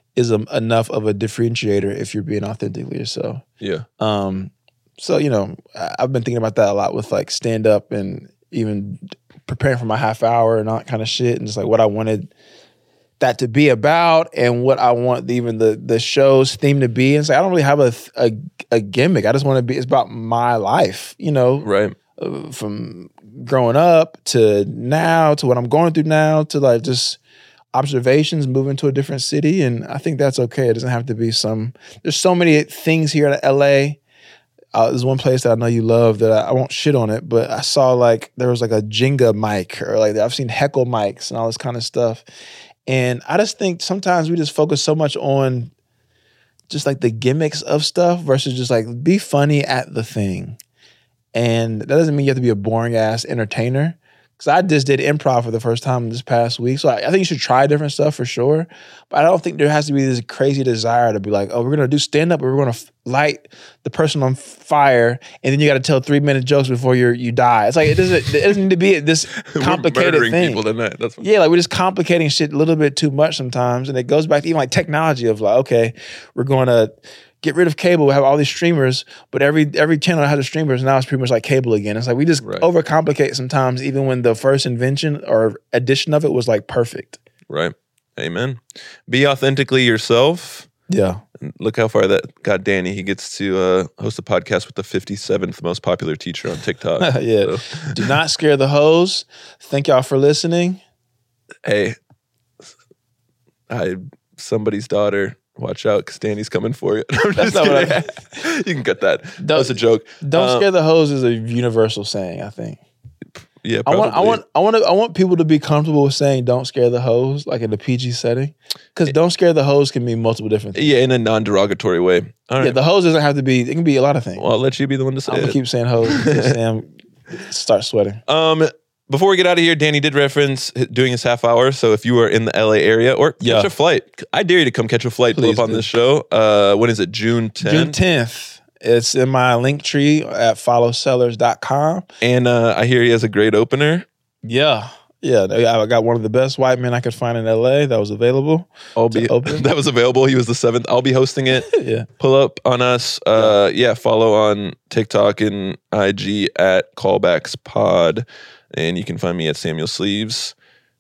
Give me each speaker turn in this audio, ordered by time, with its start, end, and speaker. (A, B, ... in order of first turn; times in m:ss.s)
0:00.2-0:03.4 A
0:04.0-0:12.3 A
0:13.2-0:27.2 A
0:21.6-0:22.0 B
0:27.7-0:34.0 A
0:34.7-0:42.2 A
0:42.9-0:45.7 A
0:46.7-0:50.6 A
0:51.3-1:10.6 A
1:09.4-1:11.3 B
1:11.2-1:27.2 A
1:22.4-1:22.7 B
1:27.5-1:30.7 B
1:30.9-1:31.2 A
1:31.4-1:38.2 B
1:37.0-1:40.8 A
1:41.6-1:42.0 B
1:43.7-1:50.7 B
1:47.4-1:48.1 A
1:49.4-1:52.8 A
1:53.6-1:54.4 B
1:53.9-2:00.9 A
2:00.8-2:02.8 B
2:02.6-2:04.4 A
2:04.4-2:06.6 B
2:05.3-2:08.2 A
2:08.3-2:18.0 B
2:13.4-2:13.7 A
2:15.3-2:15.9 A
2:17.6-2:22.1 A
2:22.2-2:24.1 B
2:24.4-2:29.6 A
2:29.0-2:40.5 B
2:31.7-2:32.1 A